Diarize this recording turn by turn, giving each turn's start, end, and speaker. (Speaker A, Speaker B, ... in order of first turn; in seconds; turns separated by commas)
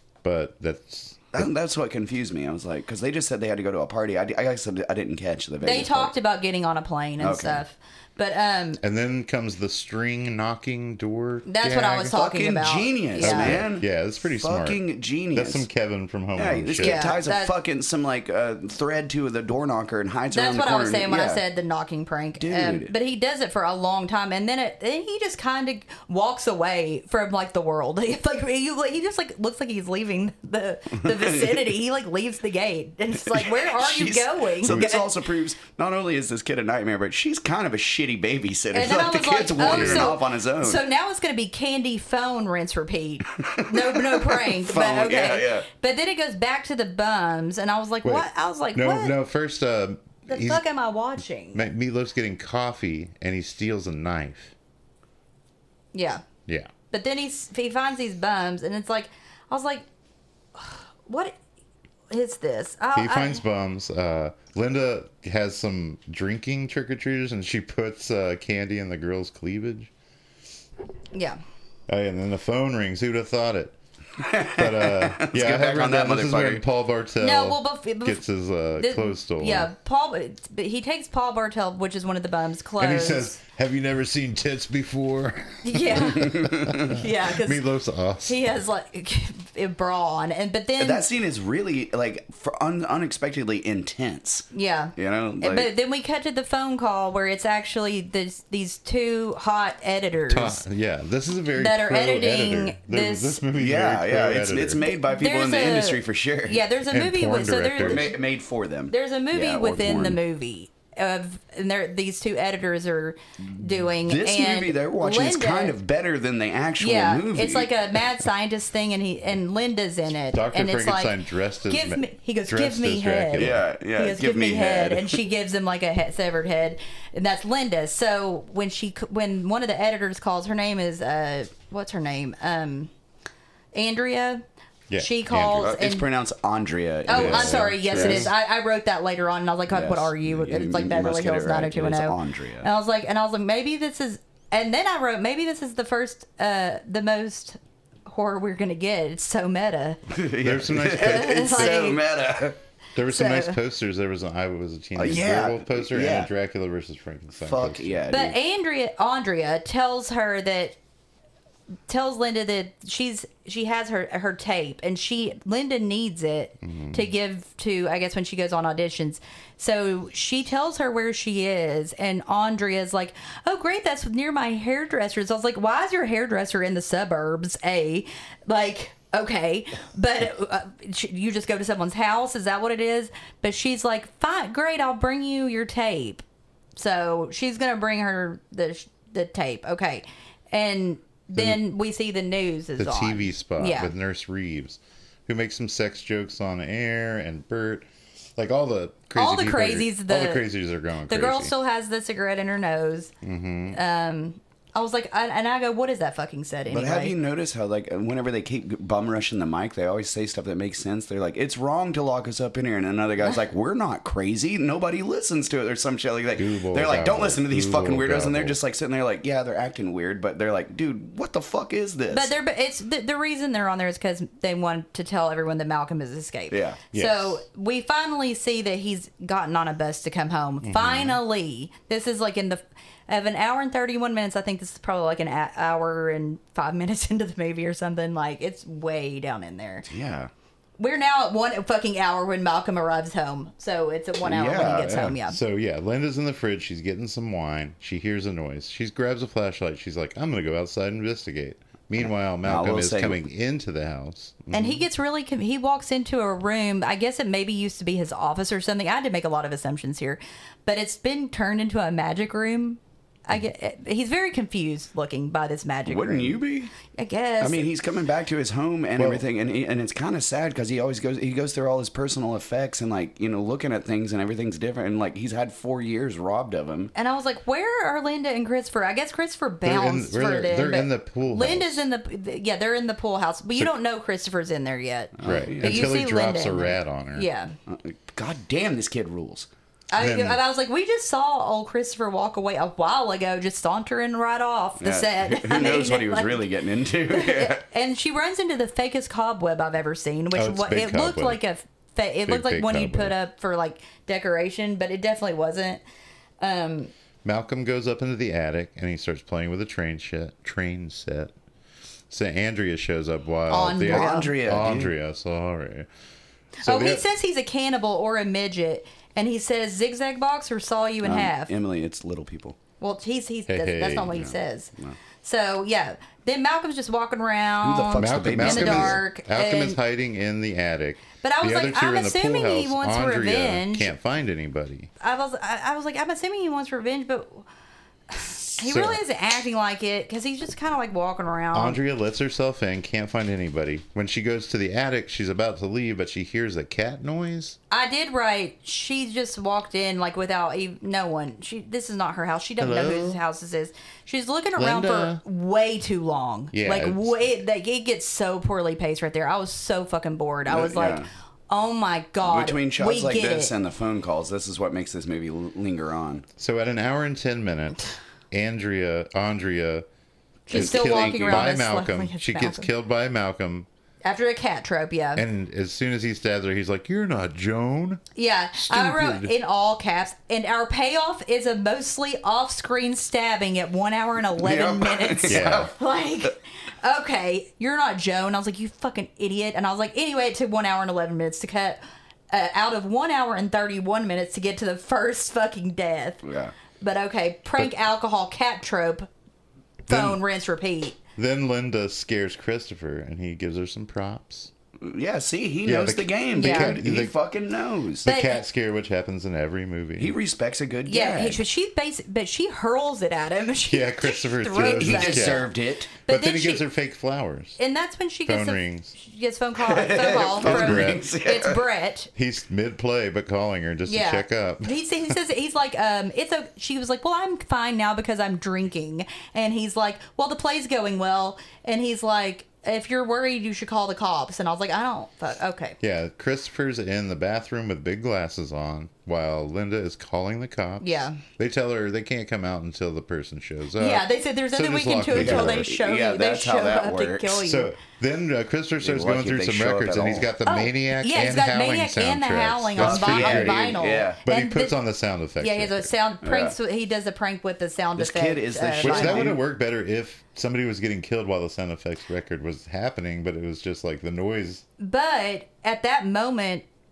Speaker A: 0.2-1.4, Speaker B: 1.3-6.1, Speaker C: 5.6-8.8, Speaker B: 7.2-7.6, Speaker A: 8.8-12.1, Speaker C: 11.4-13.6, Speaker B: 12.1-15.7, Speaker A: 13.2-17.1, Speaker B: 16.4-21.4, Speaker C: 16.8-17.5, Speaker C: 20.3-35.1, Speaker B: 22.4-22.9, Speaker B: 31.1-31.6, Speaker B: 33.2-40.8, Speaker C: 38.7-49.1, Speaker A: 39.6-40.2, Speaker B: 43.4-45.7, Speaker A: 48.0-50.6, Speaker C: 50.3-51.7, Speaker A: 51.5-54.5, Speaker C: 55.9-56.2, Speaker C: 56.9-59.9, Speaker C: 60.5-61.4, Speaker C: 62.1-63.4, Speaker A: 62.9-69.9, Speaker C: 71.1-71.4, Speaker A: 71.9-73.8, Speaker B: 74.2-76.6, Speaker A: 74.5-79.7, Speaker C: 77.2-78.2, Speaker C: 78.8-83.3, Speaker A: 82.8-88.5, Speaker C: 85.6-87.6, Speaker B: 86.1-86.9, Speaker C: 88.2-91.1, Speaker B: 90.8-95.7, Speaker C: 94.5-100.6, Speaker A: 100.3-104.8, Speaker C: 101.6-103.4, Speaker B: 103.5-106.6, Speaker C: 105.0-108.1, Speaker A: 106.9-108.1, Speaker B: 107.8-110.2, Speaker C: 108.9-115.7, Speaker B: 113.8-117.7, Speaker C: 116.8-132.9, Speaker A: 120.3-123.6, Speaker B: 123.3-125.2, Speaker C: 133.7-134.4, Speaker A: 134.9-135.8, Speaker C: 135.0-136.1, Speaker B: 135.6-138.3, Speaker C: 137.1-150.0, Speaker A: 137.1-138.3, Speaker B: 139.7-142.7, Speaker B: 150.1-152.6, Speaker A: 150.4-151.8, Speaker C: 150.9-152.0, Speaker A: 152.9-158.0, Speaker C: 153.1-153.6, Speaker B: 154.9-156.3, Speaker B: 157.4-158.4, Speaker C: 158.1-160.8, Speaker C: 161.9-186.2, Speaker A: 166.6-167.0, Speaker C: 186.8-193.9, Speaker A: 191.3-191.6, Speaker A: 192.8-201.5, Speaker C: 199.1-200.5, Speaker C: 201.1-203.1, Speaker A: 203.2-203.8, Speaker C: 203.7-207.1, Speaker B: 206.7-222.3, Speaker A: 216.3-218.6, Speaker C: 222.1-239.8, Speaker B: 226.5-226.8, Speaker A: 226.9-227.4, Speaker A: 230.6-231.2, Speaker B: 239.8-240.3, Speaker C: 240.8-245.4, Speaker B: 244.2-245.2, Speaker A: 245.3-254.8, Speaker B: 252.0-253.2, Speaker C: 254.5-267.7, Speaker B: 265.9-266.7, Speaker B: 267.4-276.9, Speaker A: 269.0-269.2, Speaker C: 276.9-287.5, Speaker A: 279.6-281.8, Speaker B: 285.1-285.9, Speaker A: 285.2-287.3, Speaker B: 287.7-289.5, Speaker C: 289.9-296.5, Speaker A: 290.0-290.4, Speaker B: 294.8-297.6, Speaker C: 297.1-305.8, Speaker A: 300.4-301.4, Speaker A: 302.2-303.1, Speaker C: 306.4-306.9, Speaker A: 307.2-311.3, Speaker A: 312.1-315.9, Speaker C: 313.5-314.3, Speaker B: 313.8-314.9, Speaker A: 316.6-317.1, Speaker C: 316.6-321.5, Speaker B: 321.0-322.6, Speaker C: 322.8-324.7, Speaker A: 323.5-324.2, Speaker B: 324.1-324.9, Speaker C: 325.2-329.8, Speaker B: 327.6-329.0, Speaker A: 328.0-334.9, Speaker C: 331.2-333.9, Speaker C: 335.0-337.4, Speaker C: 338.1-341.8, Speaker A: 338.5-339.0, Speaker A: 341.5-347.6, Speaker C: 347.7-363.5, Speaker A: 352.6-353.2, Speaker A: 354.6-355.2, Speaker A: 356.5-357.2, Speaker B: 360.5-361.1, Speaker B: 362.2-366.2, Speaker A: 366.4-369.8, Speaker C: 370.5-372.7, Speaker A: 370.5-373.7, Speaker B: 370.5-371.5, Speaker C: 374.0-375.2, Speaker A: 375.1-378.0, Speaker C: 378.1-396.2, Speaker A: 378.6-379.3, Speaker B: 384.4-385.7, Speaker A: 385.3-385.7, Speaker B: 396.2-396.5, Speaker C: 396.8-399.1, Speaker C: 399.9-401.0, Speaker A: 399.9-400.2, Speaker A: 401.2-404.5, Speaker B: 404.8-408.1, Speaker A: 405.6-407.1, Speaker C: 406.3-406.8, Speaker A: 408.0-410.1, Speaker C: 408.0-408.4, Speaker B: 410.0-411.4, Speaker C: 410.9-415.5, Speaker A: 413.7-415.5, Speaker B: 414.6-415.9, Speaker C: 416.1-416.6, Speaker A: 416.1-417.6, Speaker C: 417.6-422.1, Speaker A: 418.2-418.9, Speaker B: 419.6-421.6, Speaker A: 420.1-421.0, Speaker A: 422.1-424.8, Speaker C: 423.9-435.8, Speaker A: 435.8-445.7, Speaker C: 440.8-441.2, Speaker C: 443.8-447.7, Speaker B: 445.1-447.4, Speaker A: 447.4-455.9, Speaker B: 448.8-450.3, Speaker C: 450.4-454.8, Speaker B: 452.8-454.2, Speaker C: 455.4-459.3, Speaker B: 456.2-456.5, Speaker B: 458.0-459.4, Speaker A: 458.8-464.6, Speaker C: 464.8-466.6